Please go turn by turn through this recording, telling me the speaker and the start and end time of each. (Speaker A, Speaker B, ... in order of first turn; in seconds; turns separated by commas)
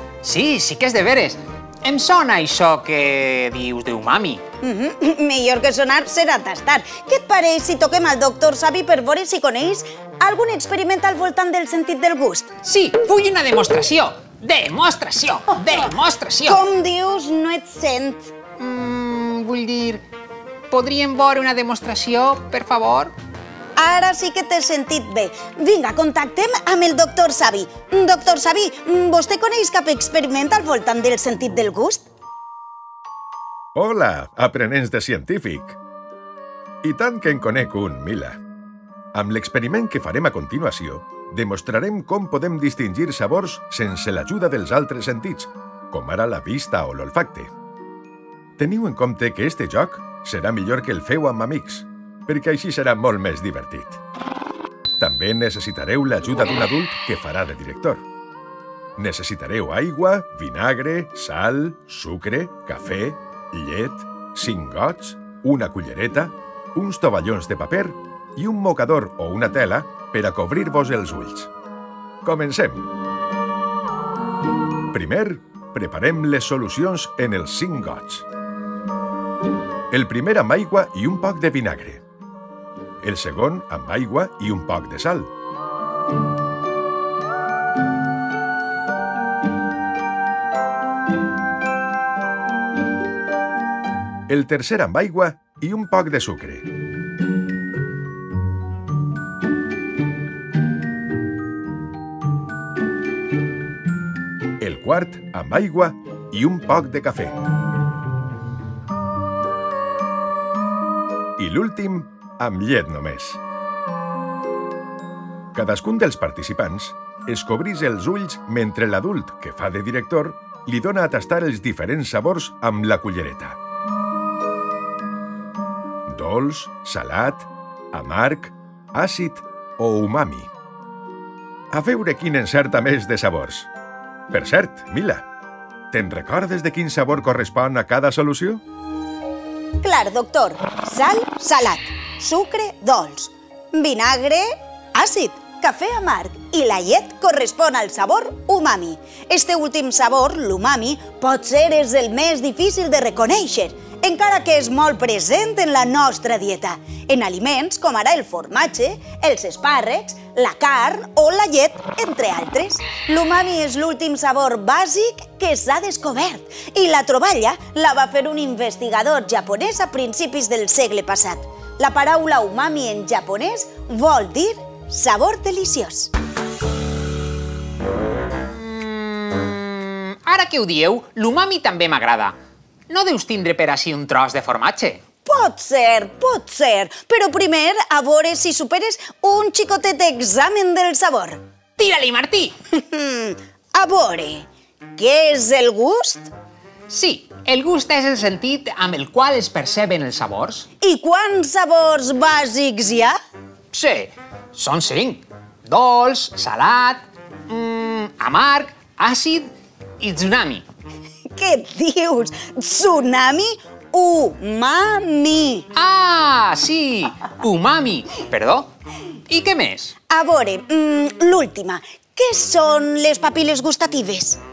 Speaker A: 0.2-4.4, Speaker B: 4.6-12.5, Speaker A: 12.6-16.6, Speaker B: 16.4-18.3, Speaker A: 18.6-20.0, Speaker A: 20.7-23.1, Speaker B: 23.8-32.0, Speaker C: 33.7-35.8, Speaker C: 36.8-38.4, Speaker C: 39.1-47.5, Speaker C: 48.6-54.0, Speaker C: 55.0-58.0, Speaker C: 59.0-71.5, Speaker C: 72.2-72.9, Speaker C: 74.9-78.2, Speaker C: 79.9-82.0, Speaker C: 83.0-85.3, Speaker C: 94.3-96.6, Speaker C: 104.6-107.4, Speaker C: 111.4-113.4, Speaker C: 115.5-123.6, Speaker C: 126.1-130.5, Speaker C: 131.7-133.7, Speaker C: 134.3-135.2, Speaker C: 135.9-138.6, Speaker B: 139.8-176.1, Speaker A: 178.5-182.3, Speaker A: 182.9-185.0, Speaker B: 185.2-191.4, Speaker A: 191.8-192.5, Speaker B: 192.7-196.3, Speaker A: 196.9-200.7, Speaker B: 200.8-203.1, Speaker A: 203.7-210.6, Speaker B: 211.3-215.7, Speaker A: 215.7-218.7, Speaker A: 219.3-219.9, Speaker B: 220.1-224.4